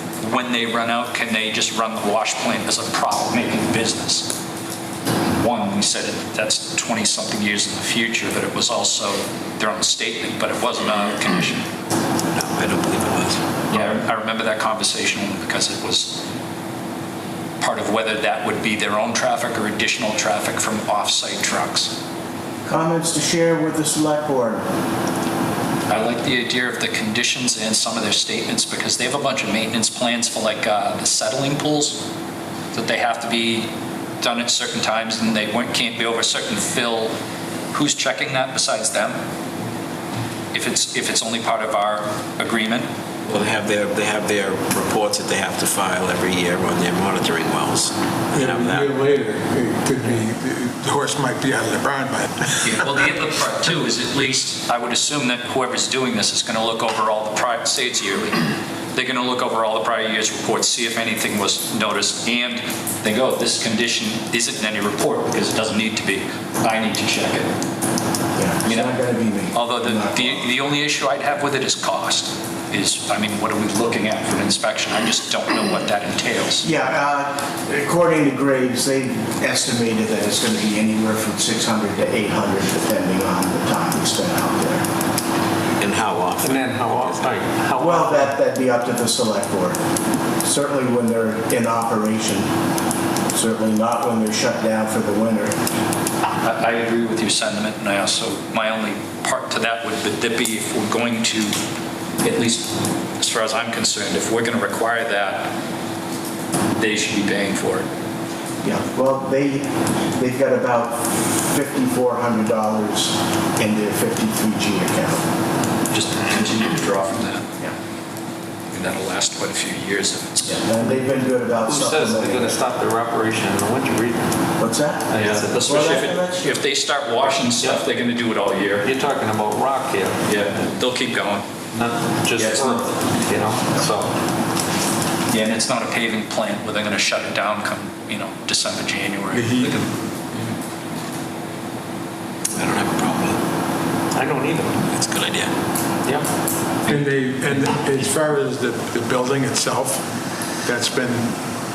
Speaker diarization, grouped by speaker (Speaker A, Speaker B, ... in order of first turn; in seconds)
Speaker A: 0.2-4.3, 5.4-11.7, 13.7-16.2, 17.6-21.9, 25.9-32.0, 32.7-33.7, 34.2-37.1, 37.7-39.2, 40.5-42.9, 52.6-58.4, 58.9-67.5, 68.7-69.0, 69.5-76.7, 96.3-101.6, 102.2-105.5, 106.8-107.9, 115.9-117.5, 118.7-120.7, 125.1-128.9, 130.2-131.5, 132.4-132.9, 135.3-140.5
Speaker B: 12.3-13.4, 43.3-48.9, 85.8-86.8, 142.5-143.4, 144.9-145.5
Speaker C: 22.7-24.6, 68.3-70.5, 76.6-84.8, 87.8-89.8, 90.4-92.5, 93.3-95.6, 108.6-115.2, 120.5-122.5, 124.6-125.1, 125.6-126.6
Speaker D: 48.3-52.8, 139.3-139.9, 146.9-150.1, 150.6-151.3
Speaker E: 86.4-88.3, 121.6-124.3, 125.1-125.8, 128.8-130.2, 131.7-134.1, 144.1-144.8